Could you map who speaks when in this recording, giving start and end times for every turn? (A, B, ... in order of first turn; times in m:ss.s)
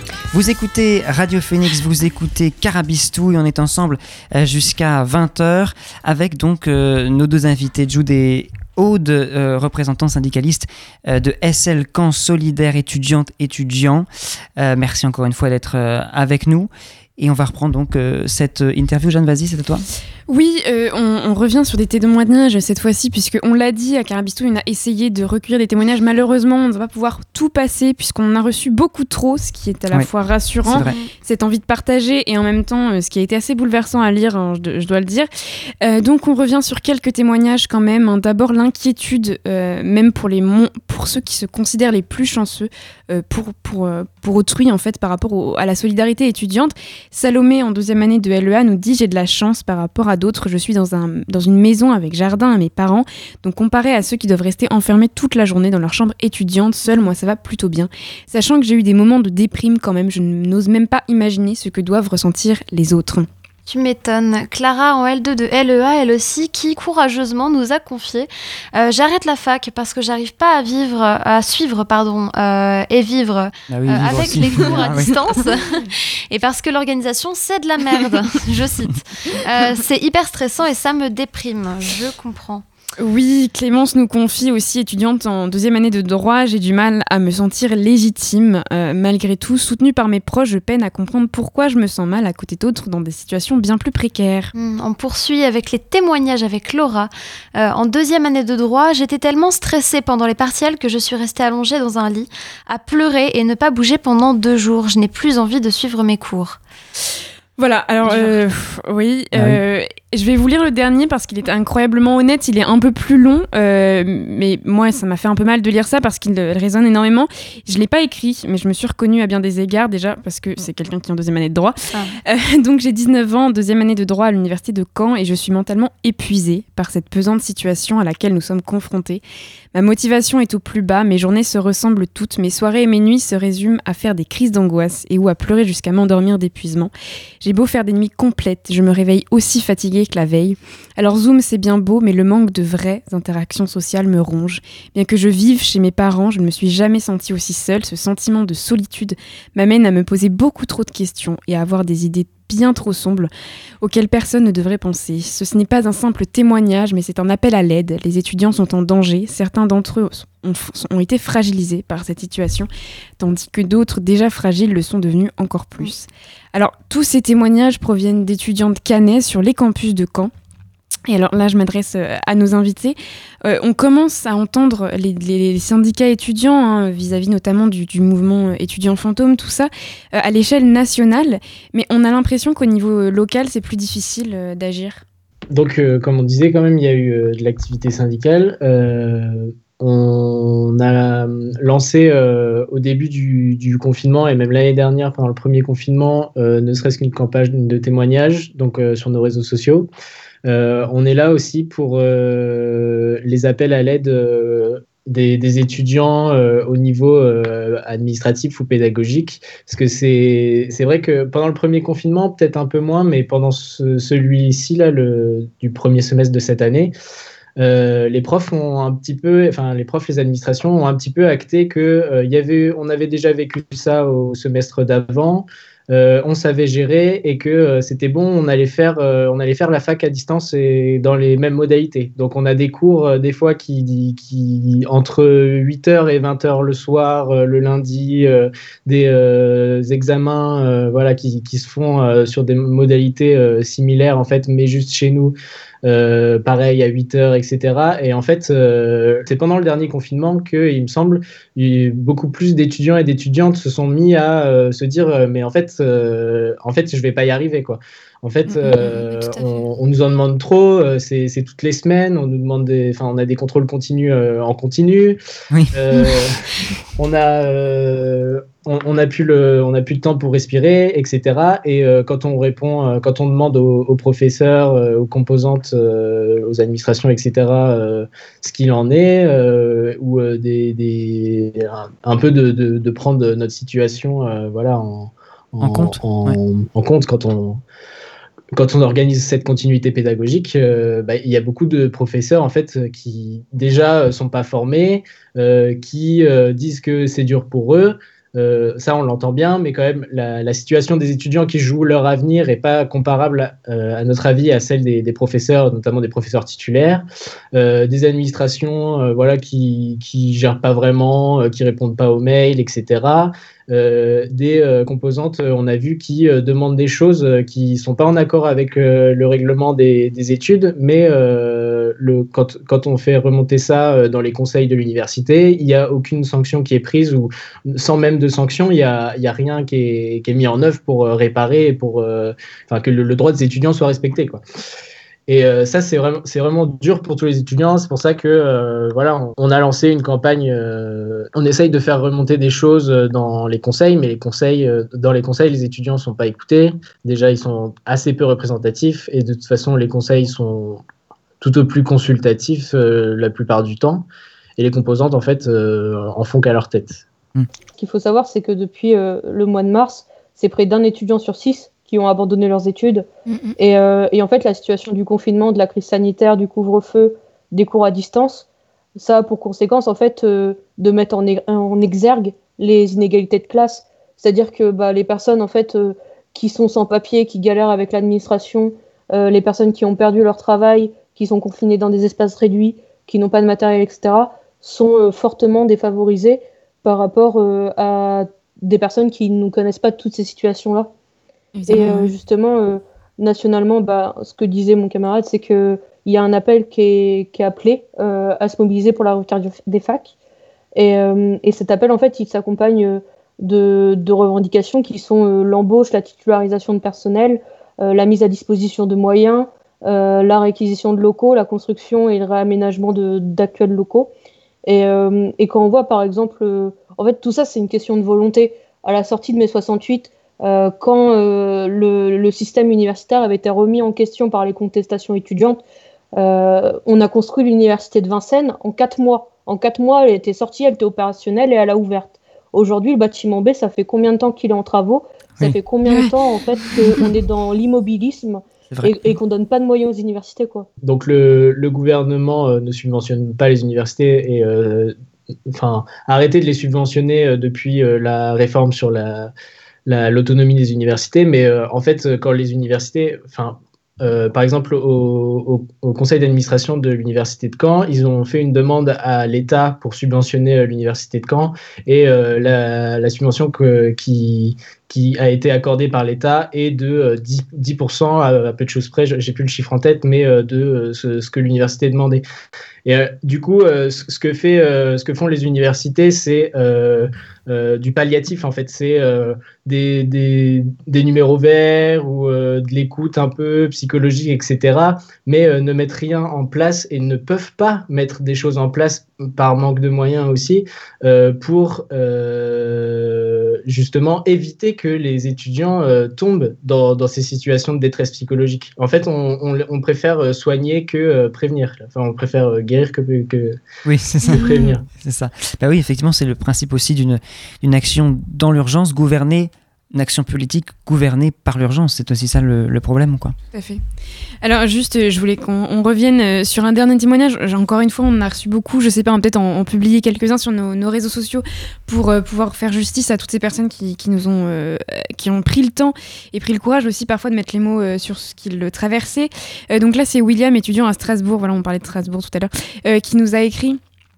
0:00.3-0:19.8 A
0:20.3-0:35.3 B
0:30.6-0:31.0 A
0:30.7-0:31.1 C
0:35.8-1:03.3 B
1:03.7-1:22.6 C
1:13.7-1:15.1 A
1:23.0-1:34.5 B
1:34.5-1:46.6 C
1:47.6-2:09.2 B
1:49.3-1:49.6 A
2:09.7-2:33.3 B
2:33.8-2:50.3 B
2:51.1-3:05.0 B
3:05.5-3:19.9 D
3:20.4-3:36.9 D
3:37.6-4:25.2 D
4:18.5-4:19.6 C
4:25.7-4:26.4 D
4:27.0-4:47.6 D
4:45.6-4:46.4 A
4:48.5-5:34.4 D
5:35.3-5:50.8 D
5:51.4-5:54.1 D
5:54.6-5:57.0 D
5:57.8-6:08.4 E
6:09.0-6:30.9 E
6:31.6-6:32.1 B
6:31.7-6:40.1 E
6:40.8-6:54.1 E
6:54.6-7:05.6 E
7:06.2-7:20.7 E
7:15.9-7:16.1 B
7:18.7-7:19.1 A
7:20.8-7:24.9 D
7:25.5-7:29.3 D
7:29.9-7:52.2 D
7:52.8-8:23.6 D
8:23.8-8:33.4 A
8:24.2-8:24.9 D
8:33.5-8:33.8 B
8:34.4-8:53.8 B